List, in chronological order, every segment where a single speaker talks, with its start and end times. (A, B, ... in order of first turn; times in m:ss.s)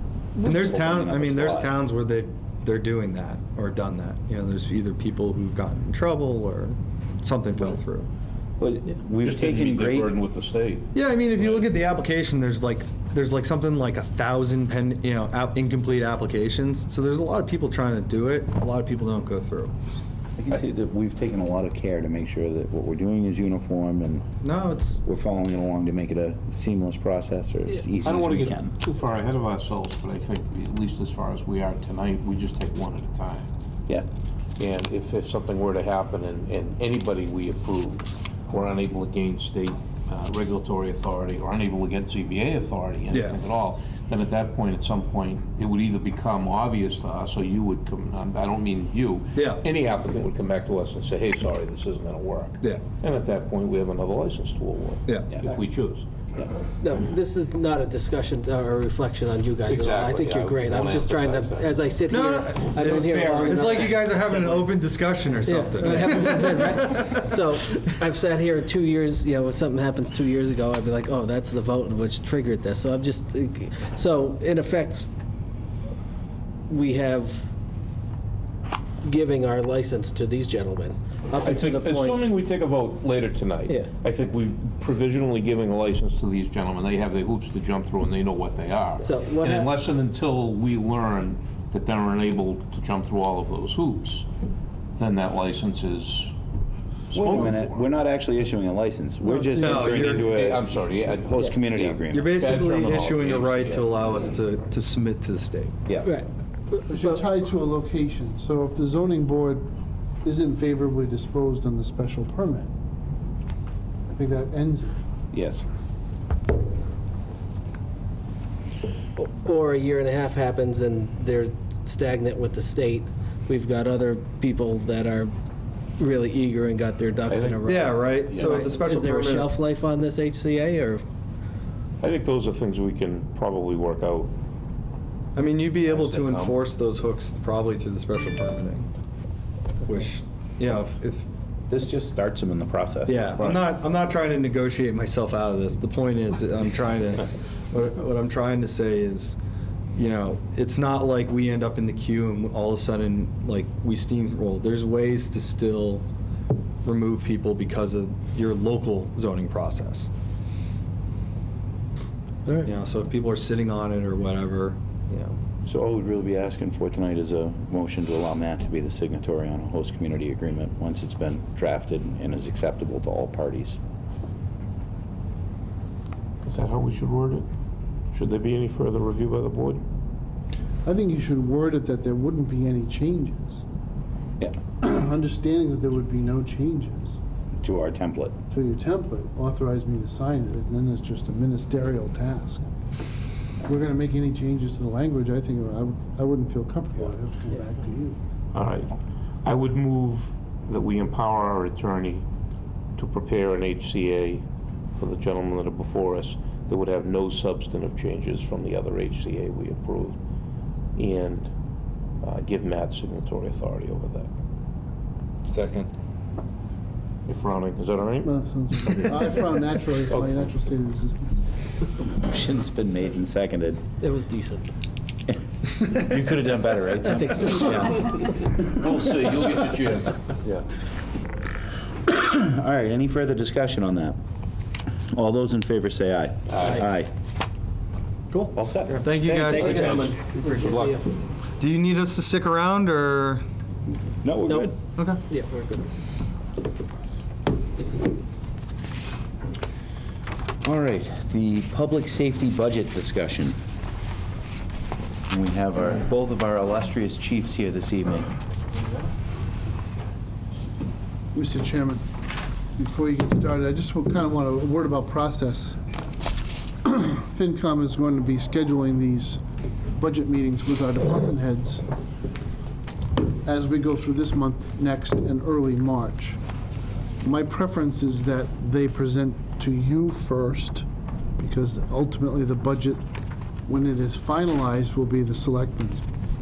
0:00.4-0:08.1 A
0:00.4-0:01.7 B
0:08.6-0:10.1 B
0:09.2-0:10.9 C
0:11.0-0:19.7 A
0:20.4-0:24.3 B
0:24.4-0:25.0 A
0:25.0-0:28.7 B
0:28.0-0:33.5 C
0:34.6-0:56.1 C
0:43.1-0:43.4 A
0:49.4-0:49.6 A
0:56.8-1:04.7 D
0:59.7-1:01.9 C
1:02.1-1:07.2 A
1:02.8-1:03.7 C
1:05.5-1:15.1 D
1:16.7-1:17.5 D
1:19.0-1:22.2 D
1:21.4-1:34.3 C
1:29.0-1:29.7 D
1:35.0-1:36.3 C
1:37.1-1:37.8 C
1:37.1-1:40.6 B
1:39.3-1:39.8 E
1:39.6-1:40.4 A
1:40.0-1:44.0 C
1:41.2-1:42.3 B
1:42.1-1:45.8 A
1:45.9-1:46.1 C
1:46.0-1:47.1 D
1:46.9-1:49.7 E
1:50.2-1:52.7 E
1:54.1-1:55.0 E
1:55.3-1:55.6 B
1:59.2-2:05.3 D
2:06.0-2:11.0 D
2:07.3-2:07.6 C
2:07.6-2:09.5 A
2:08.3-2:08.6 C
2:12.0-2:14.3 C
2:15.4-2:18.9 A
2:15.9-2:16.6 C
2:19.8-2:21.3 A
2:21.7-2:23.6 B
2:23.1-2:29.4 A
2:30.0-2:36.1 A
2:36.8-2:40.1 A
2:42.6-2:45.4 A
2:45.7-2:53.8 B
2:56.5-2:57.5 C
2:58.1-2:59.8 C
3:00.8-3:03.6 E
3:04.8-3:07.2 E
3:07.6-3:08.4 B
3:08.5-3:12.6 E
3:13.6-3:18.2 E
3:18.5-3:18.9 C
3:19.4-3:22.2 C
3:23.0-3:24.4 C
3:25.0-3:30.2 C
3:31.0-3:31.5 C
3:32.2-3:34.3 C
3:37.3-3:39.5 C
3:38.2-3:41.4 E
3:40.1-3:40.5 C
3:42.0-3:43.8 B
3:44.0-3:44.7 D
3:45.3-3:48.2 B
3:47.1-3:47.8 D
3:47.7-3:50.6 C
3:52.1-3:54.2 B
3:55.1-3:57.1 B
3:56.5-3:56.8 C
3:58.3-4:00.1 A
3:58.5-4:00.0 B
3:59.2-4:01.1 D
3:59.6-4:01.0 C
4:01.6-4:03.4 A
4:04.2-4:04.8 B
4:05.3-4:05.9 D
4:10.6-4:13.6 B
4:15.3-4:18.3 B
4:21.3-4:22.0 E
4:22.8-4:25.8 E
4:26.8-4:29.4 E
4:30.0-4:31.8 E
4:33.4-4:36.4 E
4:37.2-4:40.9 E
4:41.4-4:43.0 E
4:43.7-4:46.0 E